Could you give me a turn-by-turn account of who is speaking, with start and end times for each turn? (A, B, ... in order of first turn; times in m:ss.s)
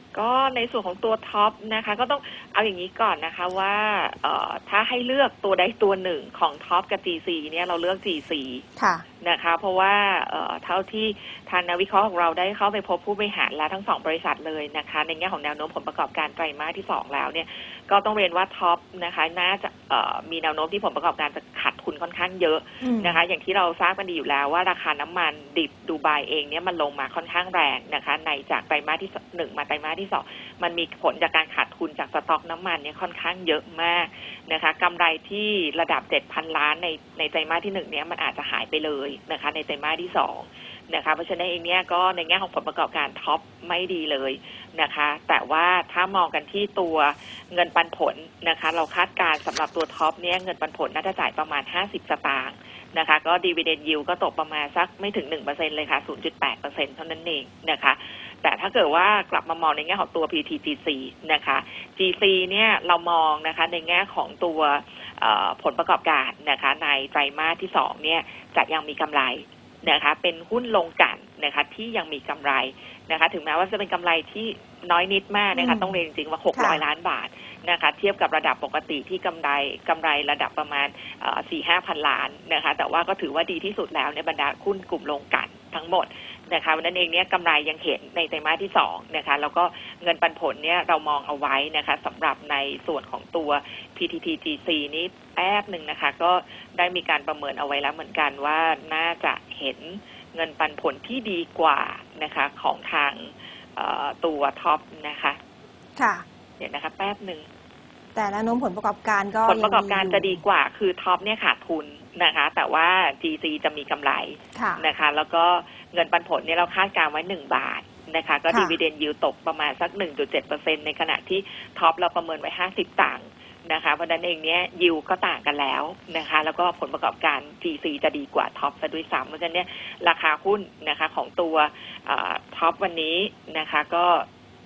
0:00.1-0:08.6 A
0:08.8-0:09.0 B
0:09.2-1:45.4 A
0:22.8-0:23.2 B
1:15.5-1:16.0 B
1:16.5-1:16.8 B
1:46.0-1:46.2 B
1:46.6-1:47.5 A
1:48.1-1:50.4 B
1:49.4-2:14.2 A
1:54.6-1:54.8 B
1:58.5-1:58.8 B